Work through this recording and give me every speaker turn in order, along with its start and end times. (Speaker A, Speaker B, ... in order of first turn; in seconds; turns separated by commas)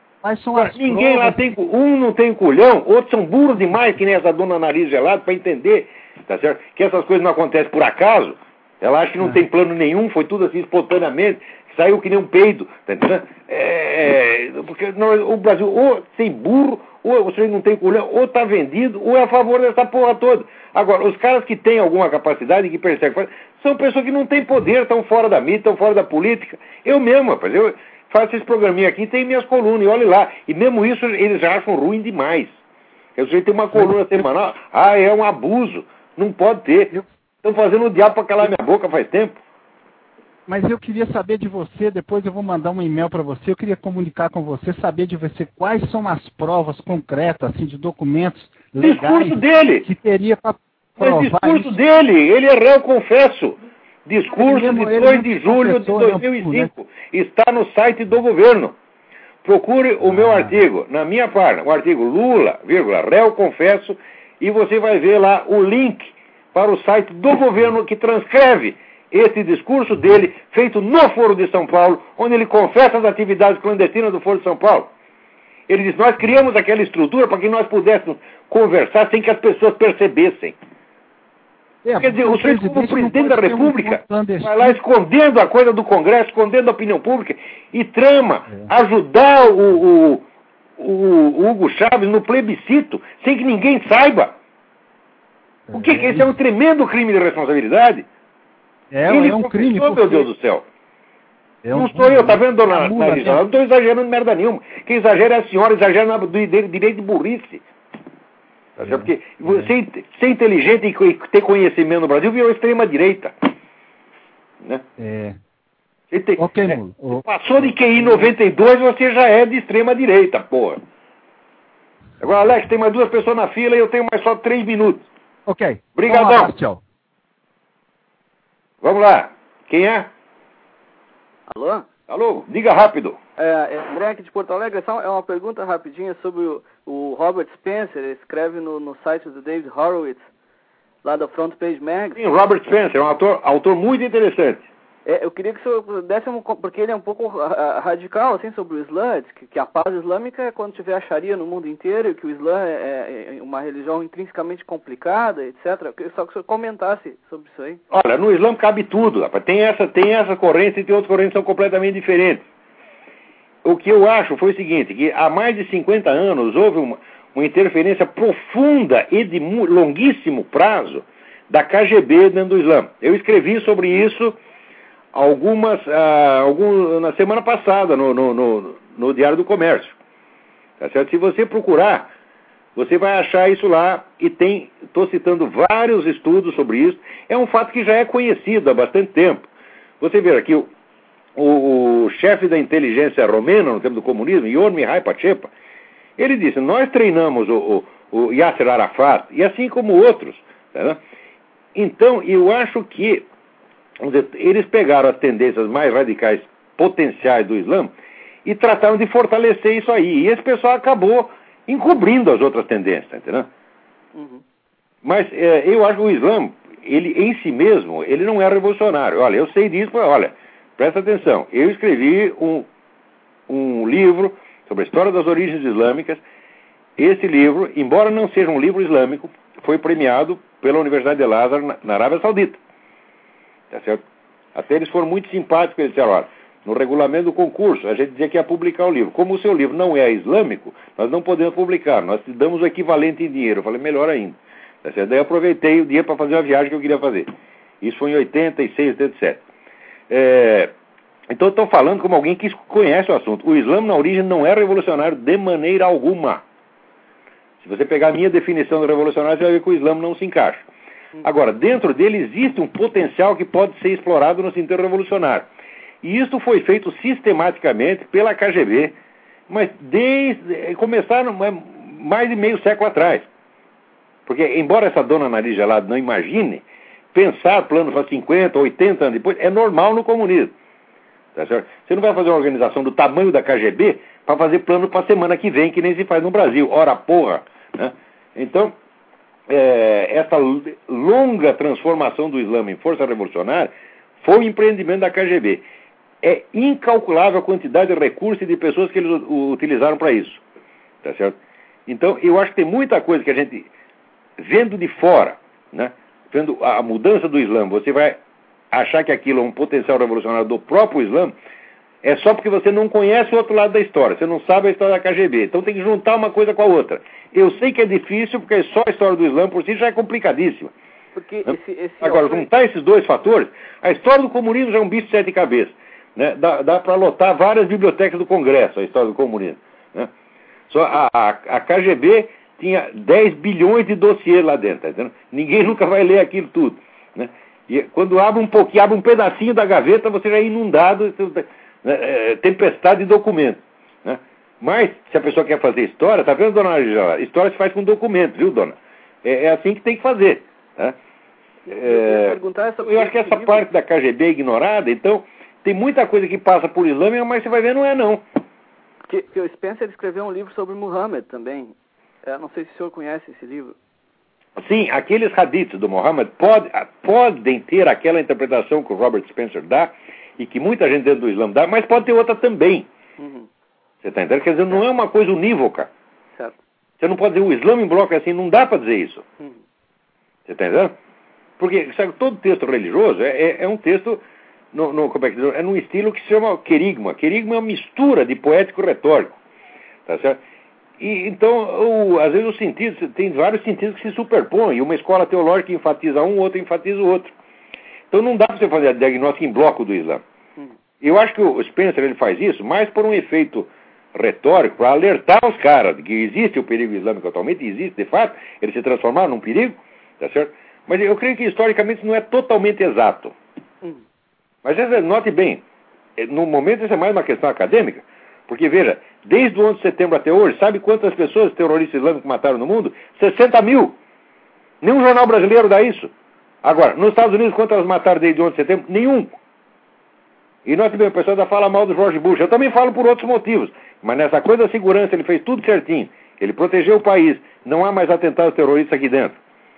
Speaker A: 0.2-1.4, Speaker B: 0.6-32.5, Speaker B: 33.2-39.4, Speaker A: 40.5-51.8, Speaker B: 48.8-49.9, Speaker B: 51.0-58.8, Speaker A: 54.3-56.7, Speaker B: 59.4-74.9, Speaker A: 60.1-60.5, Speaker B: 75.7-80.5, Speaker A: 81.8-84.8, Speaker B: 82.0-90.2, Speaker B: 90.8-94.3, Speaker A: 95.7-96.3, Speaker B: 95.7-98.1, Speaker A: 98.9-100.3, Speaker B: 99.1-100.7, Speaker A: 101.6-103.4, Speaker B: 101.7-107.6, Speaker A: 108.8-109.7, Speaker B: 108.8-113.3, Speaker A: 115.0-115.4, Speaker B: 116.1-120.8, Speaker A: 116.4-118.3, Speaker B: 122.2-125.0, Speaker A: 125.5-126.8, Speaker B: 126.0-126.5, Speaker B: 128.8-130.1, Speaker C: 131.5-131.9, Speaker B: 132.1-133.2, Speaker C: 133.4-140.3, Speaker C: 141.0-142.2, Speaker B: 142.2-144.7, Speaker C: 145.1-157.8, Speaker B: 157.9-162.4, Speaker B: 163.6-174.4, Speaker B: 175.1-180.0, Speaker B: 180.8-182.1, Speaker B: 182.8-189.5, Speaker B: 190.0-190.7, Speaker B: 191.4-195.5, Speaker B: 196.2-201.0, Speaker B: 201.8-203.3, Speaker B: 204.0-207.9, Speaker B: 208.4-213.5, Speaker C: 214.2-214.4, Speaker B: 215.0-222.7, Speaker B: 223.5-226.2, Speaker B: 227.0-232.6, Speaker B: 233.7-234.0, Speaker B: 234.6-247.3, Speaker B: 247.8-249.4, Speaker B: 250.1-250.7, Speaker B: 251.3-256.4, Speaker B: 257.6-260.7, Speaker B: 261.2-265.5, Speaker B: 266.0-268.9, Speaker B: 269.5-273.3, Speaker B: 274.3-280.5, Speaker B: 281.4-288.7, Speaker B: 289.5-295.6, Speaker B: 296.2-300.4, Speaker B: 301.0-301.4, Speaker B: 301.9-303.7, Speaker B: 304.4-308.2, Speaker B: 308.7-311.3, Speaker B: 312.0-320.7, Speaker C: 321.2-322.5, Speaker B: 321.4-330.1, Speaker B: 330.7-351.0, Speaker B: 351.7-358.2, Speaker C: 351.8-353.7, Speaker C: 359.1-361.7, Speaker C: 362.3-363.8, Speaker B: 364.6-372.9, Speaker C: 373.2-373.5, Speaker B: 374.0-375.9, Speaker B: 377.0-379.2, Speaker B: 380.5-380.9, Speaker B: 381.6-384.2, Speaker B: 384.7-389.4, Speaker B: 390.1-390.4, Speaker B: 391.0-397.3, Speaker B: 398.1-400.2, Speaker B: 401.0-413.4, Speaker B: 414.6-415.6, Speaker B: 416.2-424.0, Speaker B: 424.8-426.1, Speaker B: 426.6-429.3, Speaker B: 430.6-439.4